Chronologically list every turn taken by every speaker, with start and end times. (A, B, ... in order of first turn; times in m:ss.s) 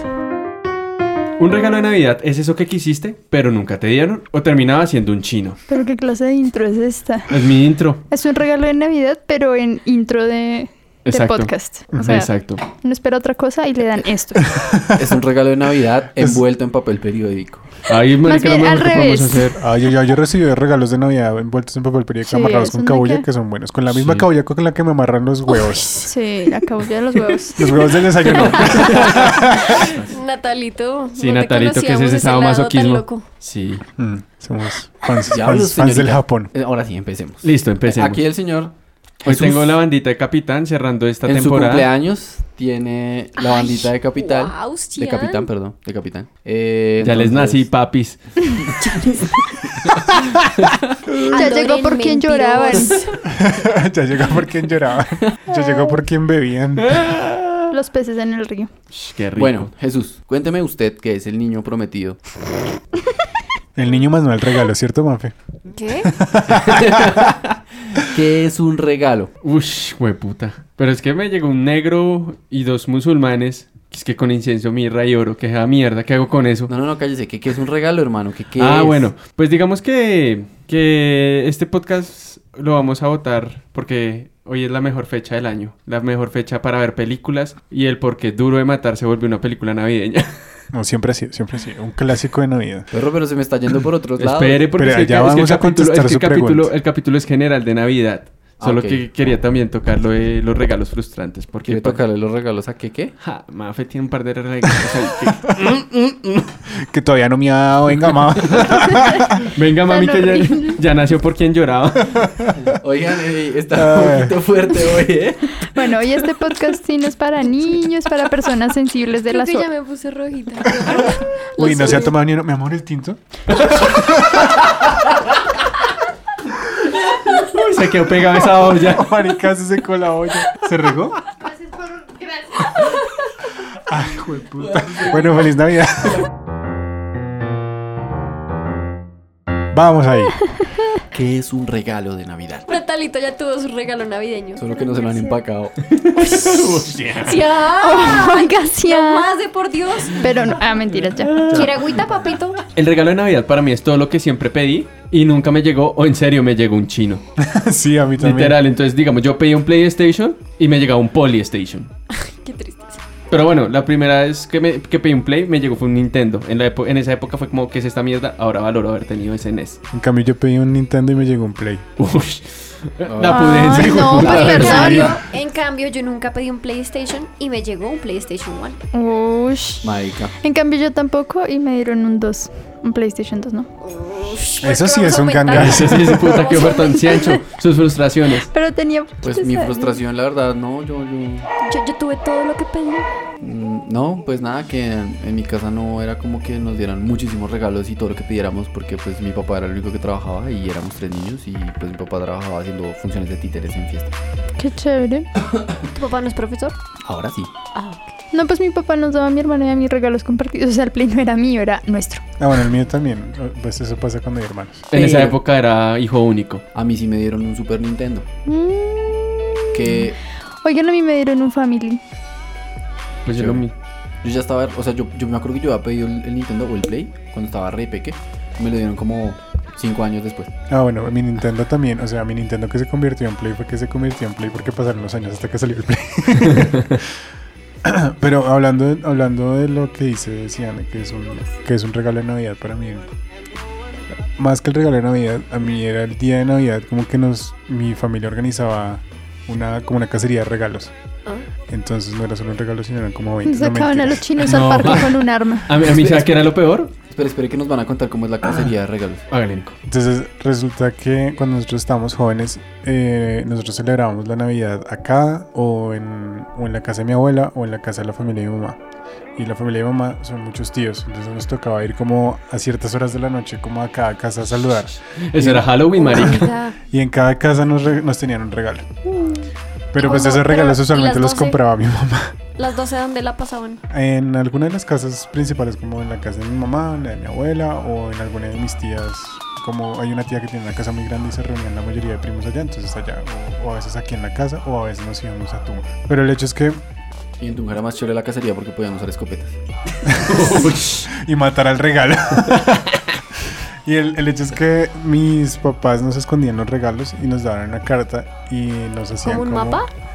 0:01.4-0:05.6 A
0:05.7-0:07.3 B
0:07.3-0:08.0 A
0:08.1-0:14.5 B
0:11.0-0:12.6 A
0:11.9-0:12.2 C
0:14.4-0:15.2 C
0:14.9-0:17.7 D
0:16.2-0:16.4 C
0:17.9-0:19.6 A
0:18.2-0:19.5 B
0:19.6-0:26.1 C
0:22.2-0:23.2 B
0:23.9-0:24.3 A
0:26.0-0:27.7 B
0:27.6-0:29.9 C
0:28.3-0:30.2 A
0:28.6-0:33.2 E
0:31.2-0:33.8 A
0:34.0-0:36.5 C
0:35.2-0:38.7 D
0:37.4-0:38.2 A
0:39.2-0:39.8 D
0:39.2-0:41.9 A
0:41.2-0:47.7 D
0:43.4-0:45.5 E
0:47.0-0:48.2 A
0:48.8-0:49.5 E
0:49.7-0:50.0 D
0:51.2-0:53.1 B
0:51.3-0:53.2 E
0:53.3-0:57.1 C
0:56.8-0:57.7 A
0:57.7-0:58.7 B
0:58.9-0:59.7 A
0:59.4-1:02.2 D
1:03.7-1:05.3 C
1:05.7-1:06.1 E
1:06.0-1:07.2 C
1:06.5-1:09.3 D
1:09.4-1:16.7 A
1:16.7-1:19.0 D
1:18.6-1:30.4 A
1:30.7-1:32.9 C
1:32.9-1:34.7 D
1:34.2-1:42.0 A
1:34.7-1:36.7 C
1:38.6-1:39.0 D
1:41.6-1:43.1 D
1:43.2-1:46.4 A
1:46.7-1:49.5 C
1:49.5-1:52.3 A
1:49.9-1:50.8 B
1:52.1-1:52.5 C
1:52.7-1:55.9 D
1:53.7-1:54.4 C
1:55.7-1:59.6 B
1:59.3-2:02.2 E
2:00.8-2:03.2 C
2:03.8-2:04.5 C
2:07.2-2:09.1 A
2:08.6-2:11.2 C
2:13.8-2:16.2 C
2:19.7-2:20.4 C
2:21.1-2:22.7 D
2:22.7-2:25.3 E
2:24.6-2:25.9 D
2:25.9-2:27.4 A
2:26.2-2:26.7 E
2:27.2-2:30.2 E
2:27.8-2:29.4 B
2:30.1-2:31.6 B
2:31.2-2:31.7 A
2:31.4-2:32.6 E
2:32.7-2:37.2 A
2:37.4-2:38.6 C
2:38.2-2:41.9 A
2:42.1-2:43.0 E
2:43.3-2:49.8 A
2:49.9-2:51.8 C
2:52.0-2:55.1 A
2:53.1-2:55.0 D
2:53.2-2:55.1 B
2:54.4-2:58.8 E
2:54.6-2:55.2 C
2:58.9-2:59.8 B
2:59.8-3:00.4 D
3:00.4-3:03.7 B
3:03.8-3:07.2 E
3:04.6-3:06.3 C
3:05.5-3:08.5 A
3:08.5-3:10.0 B
3:09.2-3:11.5 D
3:11.6-3:13.1 E
3:13.4-3:24.1 D
3:24.6-3:25.3 B
3:25.9-3:26.8 E
3:27.0-3:27.5 D
3:27.7-3:28.1 E
3:28.3-3:32.2 B
3:32.4-3:34.8 C
3:34.9-3:36.6 A
3:34.9-3:35.4 D
3:36.7-3:38.3 D
3:38.4-3:39.9 B
3:39.7-3:40.2 D
3:40.6-3:42.0 B
3:43.2-3:43.7 A
3:43.3-3:43.6 D
3:44.2-3:50.5 D
3:50.7-3:57.1 C
3:56.5-3:56.9 A
3:57.8-4:03.1 C
4:04.3-4:10.9 C
4:11.7-4:14.8 C
4:13.4-4:15.7 B
4:14.4-4:16.9 A
4:15.8-4:16.5 D
4:17.1-4:19.2 D
4:19.3-4:19.8 A
4:19.8-4:28.8 C
4:29.4-4:38.9 C
4:35.1-4:36.4 A
4:36.0-4:36.8 E
4:39.0-4:39.5 E
4:39.9-4:42.4 C
4:40.0-4:41.6 E
4:42.6-4:43.8 E
4:43.9-4:56.8 C
4:57.4-4:59.6 D
5:00.0-5:03.1 C
5:00.2-5:01.1 A
5:03.8-5:09.8 C
5:09.2-5:09.9 E